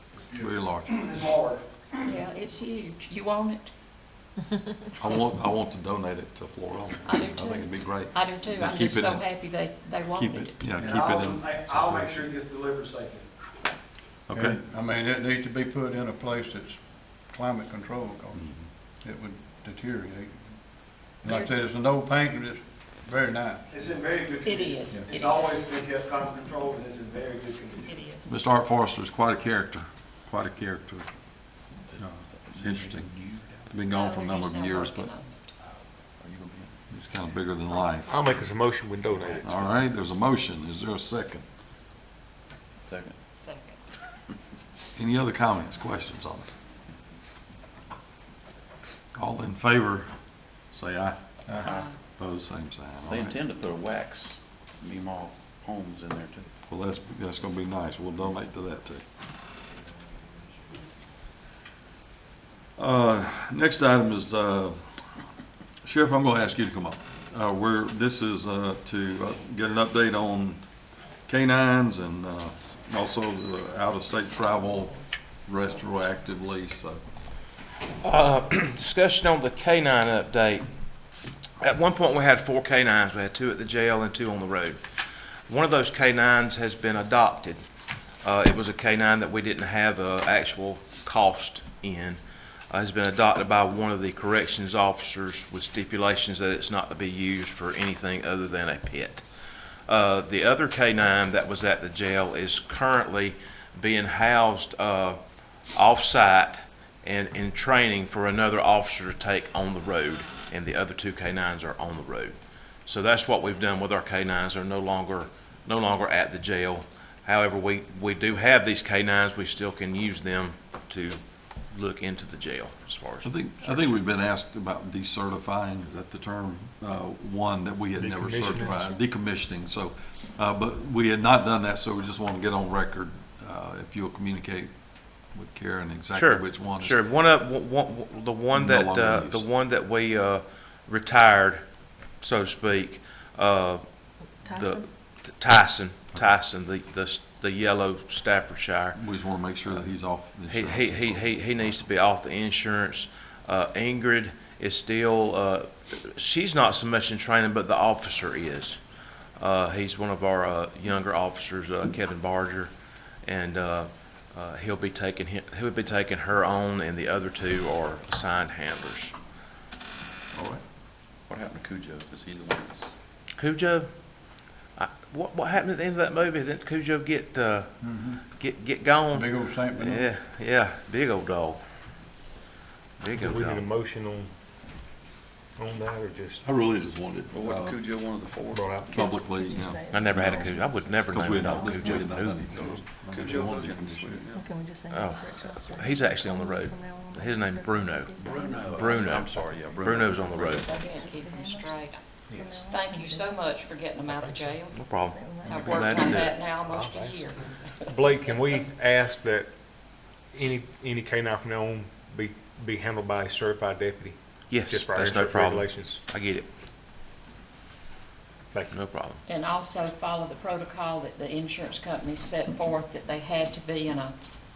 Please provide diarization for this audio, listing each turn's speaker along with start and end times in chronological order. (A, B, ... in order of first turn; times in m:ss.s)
0:00.4-0:01.0 A
0:00.9-0:01.6 B
0:02.0-0:03.7 C
0:05.0-0:09.3 A
0:07.0-0:10.6 C
0:10.1-0:12.3 A
0:10.8-0:13.3 B
0:14.3-0:14.6 A
0:14.3-0:20.4 D
0:18.3-0:18.7 A
0:21.1-0:23.7 D
0:23.7-0:28.0 B
0:24.4-0:25.7 C
0:27.8-0:28.4 C
0:28.3-0:31.1 A
0:31.9-0:33.7 E
0:32.0-0:33.1 A
0:33.7-0:35.1 A
0:33.9-0:35.5 C
0:36.2-0:36.8 E
0:36.9-0:38.1 A
0:38.1-0:39.5 F
0:39.1-0:39.8 E
0:39.4-0:41.4 A
0:42.8-0:43.2 E
0:43.4-0:43.8 C
0:45.0-0:46.5 A
0:49.2-0:50.1 A
0:50.7-0:51.6 A
0:51.6-0:52.0 C
0:51.6-0:51.9 E
0:52.2-0:53.4 A
0:53.1-0:56.5 E
0:56.7-0:59.0 A
1:02.8-1:04.8 A
1:05.8-1:10.6 A
1:11.3-1:17.0 A
1:12.3-1:12.8 E
1:18.0-1:20.6 G
1:21.6-1:24.8 G
1:25.5-1:27.6 G
1:28.2-1:32.2 G
1:32.7-1:39.2 G
1:39.9-1:45.2 G
1:45.7-2:01.2 G
2:01.7-2:04.0 G
2:03.2-2:17.1 A
2:08.0-2:08.9 F
2:16.1-2:21.6 G
2:18.5-2:19.5 A
2:22.2-2:23.8 G
2:24.4-2:24.9 H
2:24.5-2:29.0 G
2:29.0-2:31.7 A
2:30.5-2:38.8 G
2:39.4-2:42.7 G
2:43.2-2:49.1 G
2:50.4-2:50.6 A
2:51.3-2:52.9 E
2:53.4-2:53.9 G
2:54.8-2:57.7 G
2:57.8-2:58.2 D
2:58.3-3:01.6 G
2:59.1-3:00.1 D
3:03.0-3:03.6 G
3:03.2-3:04.3 F
3:05.6-3:06.4 F
3:06.4-3:07.8 A
3:07.3-3:08.9 E
3:08.5-3:08.9 F
3:08.9-3:14.3 A
3:08.9-3:11.8 H
3:09.9-3:12.5 G
3:11.8-3:14.4 E
3:13.2-3:13.6 B
3:14.3-3:21.8 H
3:14.9-3:18.2 G
3:18.2-3:20.7 E
3:18.8-3:19.3 G
3:19.8-3:20.6 G
3:20.7-3:22.0 C
3:22.3-3:22.6 F
3:22.4-3:23.3 H
3:22.7-3:24.8 C
3:24.1-3:24.6 F
3:24.7-3:26.3 G
3:25.0-3:26.0 H
3:25.5-3:28.3 C
3:26.6-3:29.5 F
3:30.3-3:36.0 F
3:34.5-3:36.5 G
3:38.5-3:38.8 F
3:38.7-3:39.2 G
3:39.3-3:44.2 C